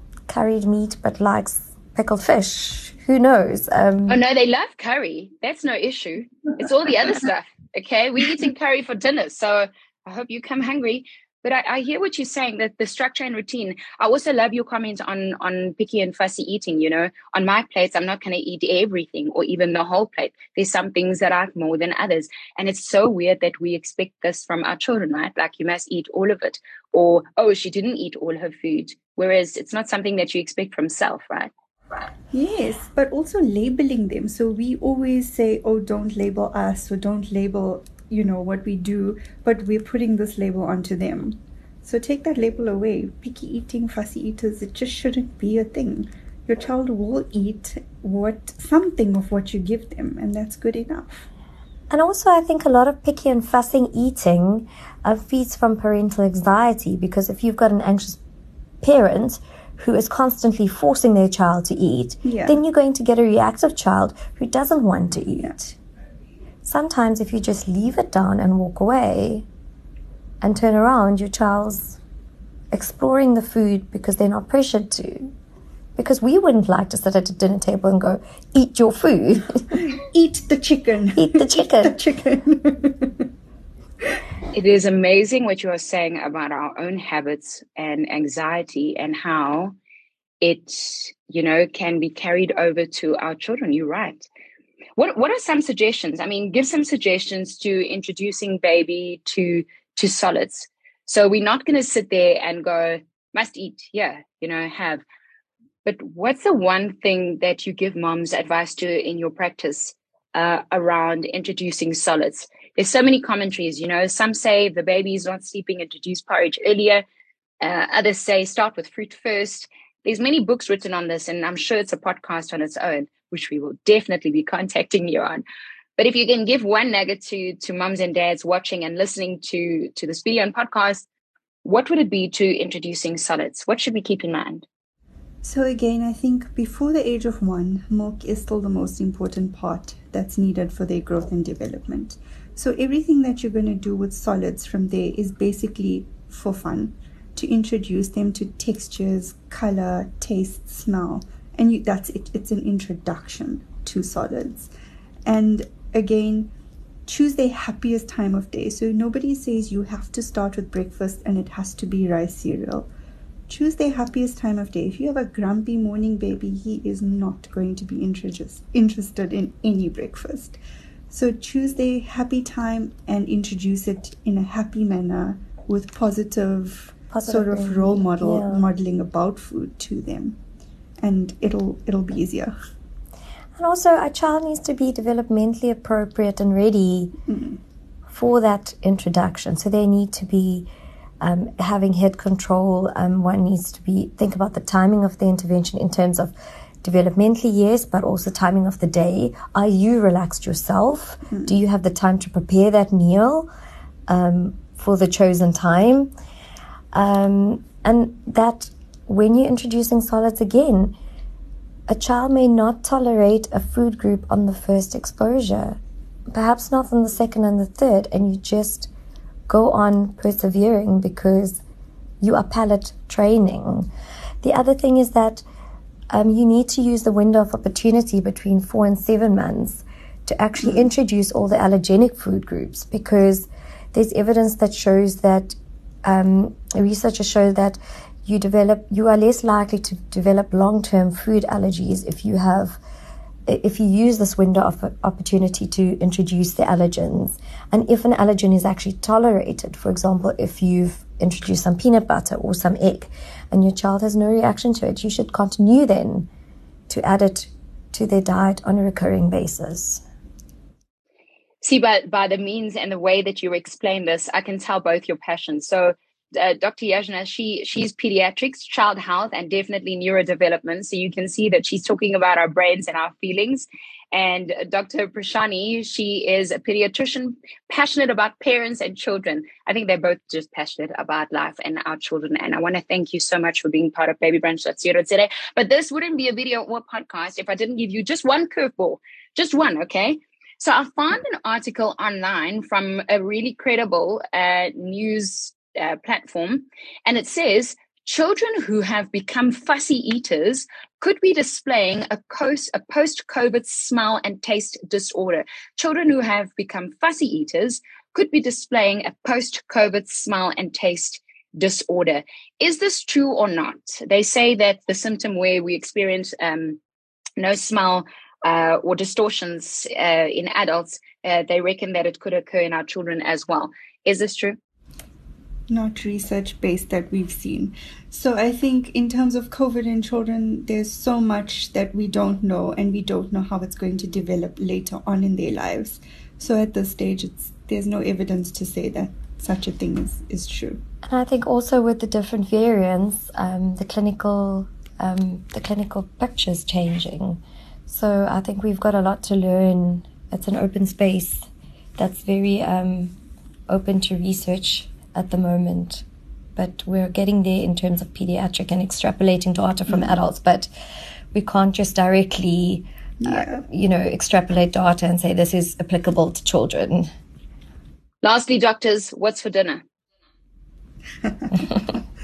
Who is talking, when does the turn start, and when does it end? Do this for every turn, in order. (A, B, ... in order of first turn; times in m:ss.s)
0:00.3-0:04.2 A
0:04.1-0:31.5 B
0:32.3-0:51.2 C
0:51.9-0:58.2 A
0:58.8-1:05.8 A
1:02.2-1:02.6 C
1:06.6-1:09.4 A
1:10.4-1:12.0 A
1:12.7-1:15.3 A
1:16.0-1:19.8 A
1:19.9-1:23.2 C
1:21.2-1:22.0 A
1:24.5-1:29.7 B
1:30.4-1:34.3 B
1:35.0-1:45.0 B
1:45.8-1:57.0 B
1:57.6-2:05.4 B
2:06.0-2:11.0 B
2:11.6-2:14.6 B
2:15.4-2:34.7 C
2:35.2-2:36.5 C
2:37.0-2:42.9 C
2:43.5-3:00.4 C
2:57.1-2:58.6 A
3:01.0-3:02.5 C
3:03.6-3:07.2 A
3:07.3-3:07.6 C
3:08.1-3:10.7 A
3:11.2-3:23.5 A
3:24.1-3:26.1 A
3:26.9-3:30.9 A
3:31.9-3:35.8 A
3:36.3-3:38.9 A
3:39.5-3:41.6 A
3:42.2-3:43.9 A
3:44.4-3:45.4 A
3:46.1-4:02.8 A
3:50.6-3:50.8 C
4:03.5-4:16.3 A
4:16.9-4:20.0 A
4:21.6-5:16.8 B
5:17.4-5:24.6 B
5:25.7-5:40.8 C
5:41.0-5:51.4 A
5:52.0-5:53.2 A
5:53.7-5:56.0 A
5:56.6-6:00.7 A
5:59.9-6:00.1 C
6:01.3-6:07.1 A
6:03.2-6:03.6 C
6:08.2-6:09.8 B
6:11.2-6:11.9 C